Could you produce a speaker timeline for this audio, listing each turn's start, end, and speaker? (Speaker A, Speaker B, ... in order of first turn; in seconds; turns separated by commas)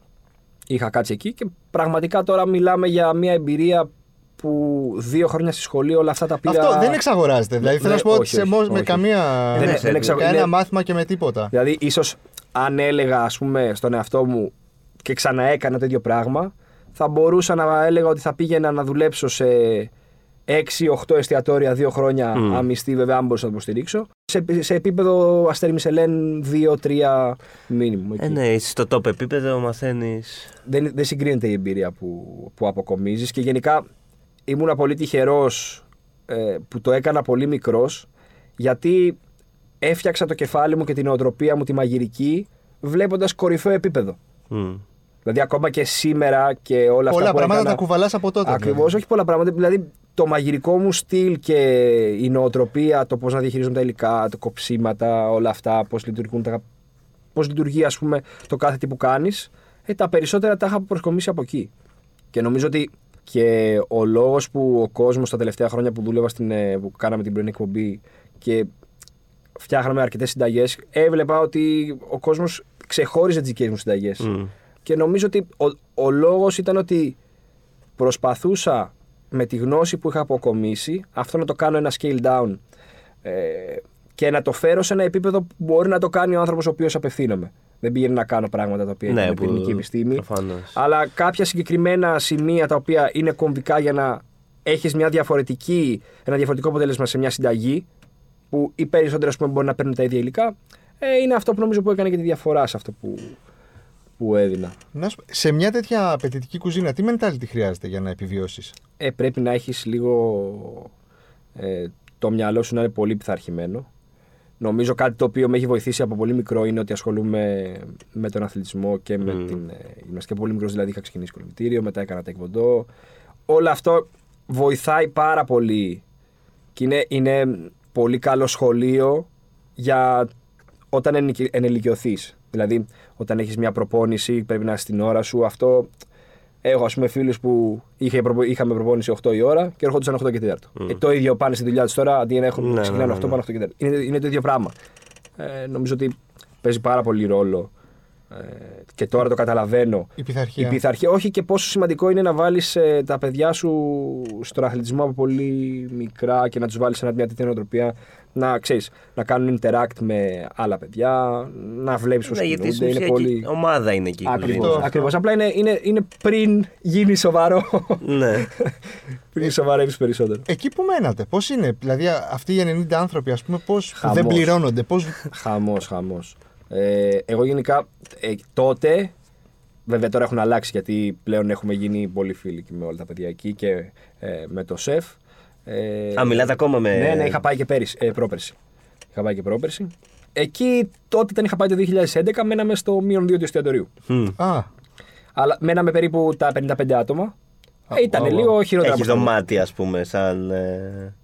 Speaker A: 0.7-7.0, Speaker B: 6.4-11.5, Speaker A: 7.6-10.5, Speaker C: 9.6-10.2, Speaker A: 11.5-14.5, Speaker A: 15.0-19.9, Speaker A: 20.5-28.4, Speaker C: 22.3-22.6, Speaker C: 28.2-30.5, Speaker A: 30.6-33.8, Speaker A: 34.5-38.1, Speaker A: 38.6-39.2, Speaker A: 39.8-44.2, Speaker C: 44.5-44.8, Speaker A: 45.2-47.8, Speaker B: 47.1-48.9, Speaker A: 48.4-56.6, Speaker A: 57.3-61.7, Speaker A: 62.3-68.7, Speaker A: 69.6-74.3, Speaker C: 74.2-74.5, Speaker A: 74.8-77.2, Speaker A: 78.0-82.6, Speaker A: 83.2-97.8, Speaker C: 89.1-90.8, Speaker A: 98.5-103.4, Speaker A: 104.2-104.8, Speaker B: 104.9-108.7, Speaker A: 109.0-110.9, Speaker A: 111.5-113.9, Speaker A: 114.6-122.9, Speaker C: 119.3-119.6, Speaker A: 123.5-126.0, Speaker A: 126.7-130.3, Speaker A: 130.9-135.9, Speaker A: 136.6-144.7, Speaker C: 142.6-143.4, Speaker A: 145.4-147.7, Speaker A: 148.3-163.5, Speaker B: 150.2-150.8, Speaker C: 162.3-164.9, Speaker A: 164.2-168.7, Speaker B: 164.5-165.1, Speaker C: 168.0-168.5, Speaker A: 169.3-170.4, Speaker B: 170.5-175.3, Speaker A: 173.9-174.5, Speaker A: 175.3-179.1, Speaker A: 179.9-188.6, Speaker C: 186.2-187.4, Speaker A: 189.1-193.9, Speaker C: 194.1-194.3, Speaker B: 194.4-194.7, Speaker A: 195.3-197.3, Speaker B: 197.9-198.5, Speaker A: 197.9-199.3, Speaker C: 198.8-201.1